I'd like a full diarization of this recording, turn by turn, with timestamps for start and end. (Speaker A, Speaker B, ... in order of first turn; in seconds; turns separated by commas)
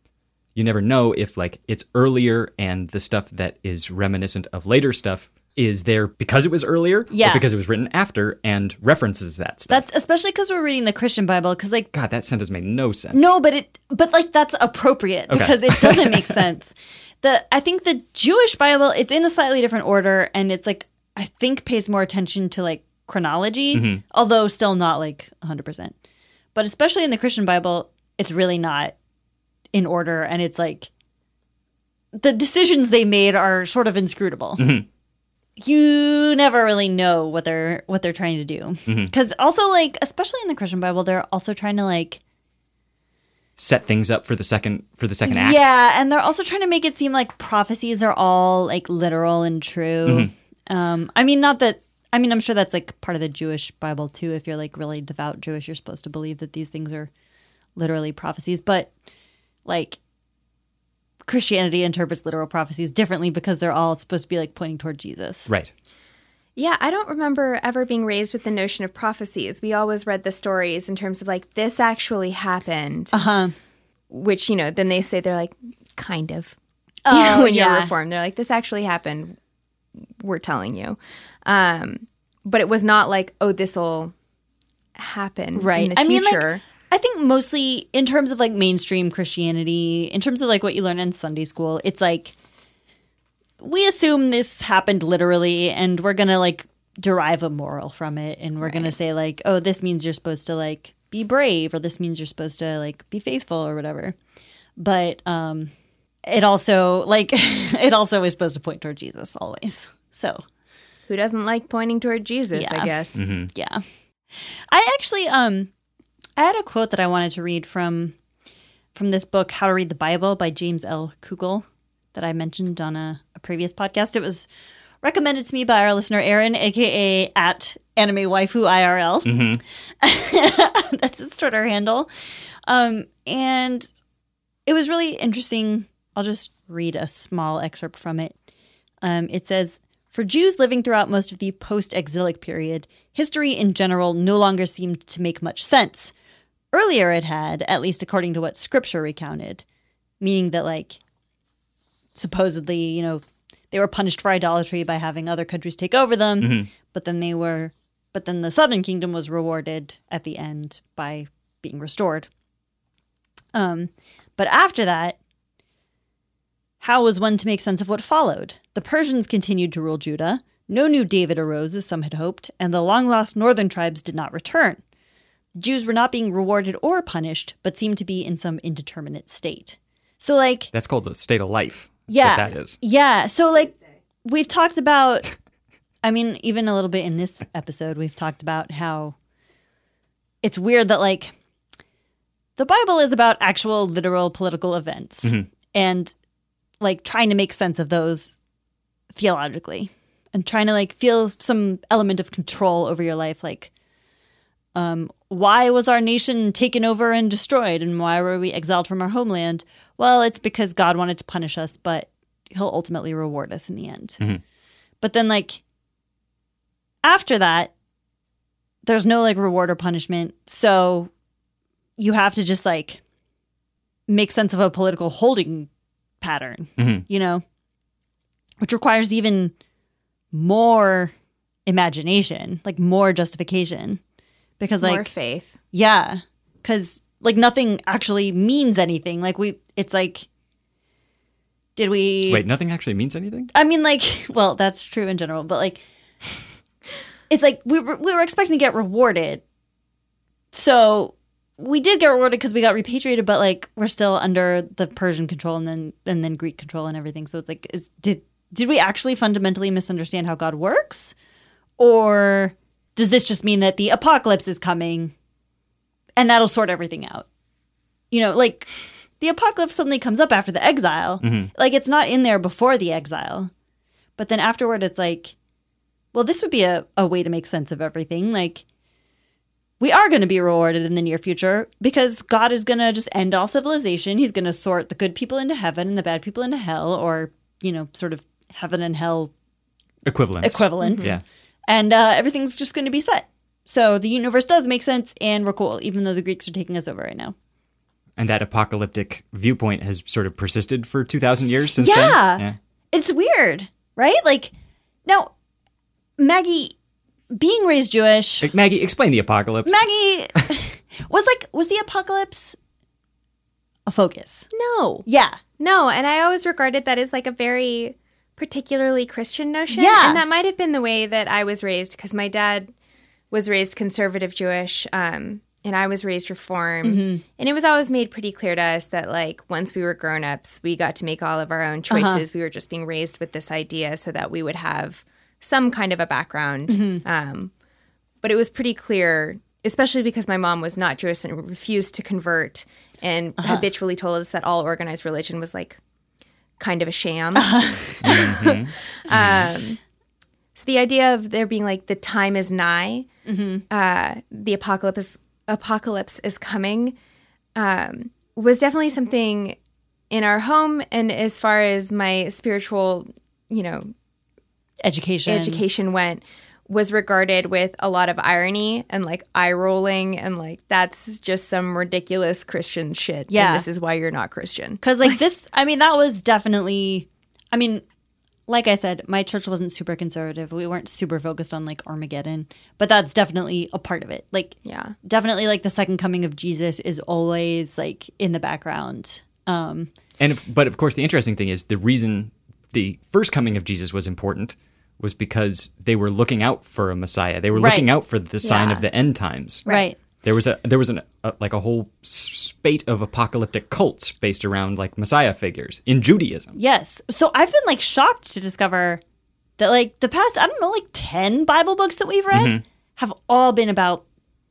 Speaker A: 0.6-9.8, Speaker B: 7.1-7.5, Speaker B: 9.7-11.9, Speaker A: 11.9-13.3, Speaker B: 13.1-25.9, Speaker A: 15.3-16.4, Speaker A: 23.7-24.0, Speaker B: 26.5-28.9, Speaker B: 29.7-30.9, Speaker B: 32.1-34.8, Speaker A: 34.6-34.9, Speaker B: 35.6-42.2, Speaker A: 38.9-39.1, Speaker A: 43.6-45.7, Speaker B: 45.2-57.1, Speaker A: 50.0-50.3, Speaker B: 57.8-58.9, Speaker B: 59.6-60.0, Speaker B: 61.3-65.5, Speaker C: 66.5-73.2, Speaker B: 73.1-73.5, Speaker C: 74.1-76.5, Speaker B: 77.0-77.9, Speaker C: 77.1-79.4, Speaker C: 80.2-84.1, Speaker C: 85.0-86.6, Speaker B: 85.5-92.3, Speaker B: 93.6-104.2, Speaker C: 98.6-98.9, Speaker B: 104.8-105.7, Speaker B: 106.2-110.4, Speaker C: 111.1-113.2, Speaker B: 112.5-113.0, Speaker A: 113.2-113.5, Speaker B: 113.5-115.7, Speaker B: 116.4-118.1, Speaker B: 118.9-124.5, Speaker B: 125.0-129.5, Speaker A: 129.2-129.6, Speaker B: 130.0-132.1, Speaker B: 132.7-133.9, Speaker B: 134.7-138.3, Speaker B: 139.0-146.1, Speaker B: 146.7-149.6, Speaker B: 150.2-151.0, Speaker B: 152.1-162.3, Speaker A: 156.4-156.7, Speaker B: 163.5-165.2, Speaker B: 166.8-174.8, Speaker B: 175.6-180.7, Speaker A: 180.7-182.8, Speaker B: 182.1-185.3, Speaker B: 186.0-189.2, Speaker B: 190.4-191.3, Speaker B: 192.6-196.1, Speaker B: 196.8-198.3, Speaker B: 199.1-203.7, Speaker B: 204.7-214.2, Speaker B: 215.0-215.6, Speaker B: 217.0-217.7, Speaker B: 218.8-221.1, Speaker B: 222.0-223.0, Speaker B: 224.1-225.7, Speaker B: 226.2-227.4, Speaker A: 226.8-227.0, Speaker B: 228.6-229.5, Speaker B: 230.3-231.1, Speaker B: 231.7-234.0, Speaker B: 234.6-235.1, Speaker C: 234.8-235.6, Speaker B: 235.7-240.3, Speaker B: 241.8-242.4, Speaker A: 242.3-243.5, Speaker B: 243.5-245.8, Speaker B: 247.3-249.4, Speaker B: 250.5-261.1, Speaker B: 261.8-265.1, Speaker B: 266.2-267.3, Speaker B: 268.1-273.5, Speaker A: 271.2-271.5, Speaker B: 274.2-275.3, Speaker B: 276.1-278.6, Speaker B: 279.8-289.3, Speaker A: 290.0-291.2, Speaker B: 290.4-297.3, Speaker C: 290.8-291.1, Speaker A: 298.2-302.6, Speaker B: 301.8-304.5, Speaker B: 305.1-305.3, Speaker B: 306.2-306.7, Speaker B: 307.3-308.5, Speaker A: 308.4-309.9, Speaker B: 309.6-312.6, Speaker B: 313.9-314.5, Speaker C: 314.5-315.1, Speaker B: 315.1-315.4, Speaker C: 315.6-322.7, Speaker B: 319.7-320.2, Speaker C: 323.3-337.5, Speaker B: 326.8-327.2, Speaker B: 331.9-332.2, Speaker B: 336.7-337.0, Speaker C: 338.2-345.8, Speaker B: 343.4-343.7, Speaker C: 346.6-349.8, Speaker B: 347.3-348.3, Speaker A: 348.0-349.5, Speaker C: 350.5-353.1, Speaker B: 353.2-353.6, Speaker C: 353.7-356.9, Speaker C: 357.5-359.6, Speaker C: 360.1-363.9, Speaker B: 364.8-365.6, Speaker C: 365.2-375.1, Speaker B: 373.3-373.7, Speaker B: 374.8-377.8, Speaker B: 378.5-389.9, Speaker C: 384.6-384.9, Speaker A: 390.2-399.6, Speaker B: 397.5-397.9, Speaker C: 398.4-398.8, Speaker B: 399.6-400.0, Speaker A: 400.2-406.6, Speaker B: 406.5-409.0, Speaker B: 409.6-414.0, Speaker A: 412.3-412.6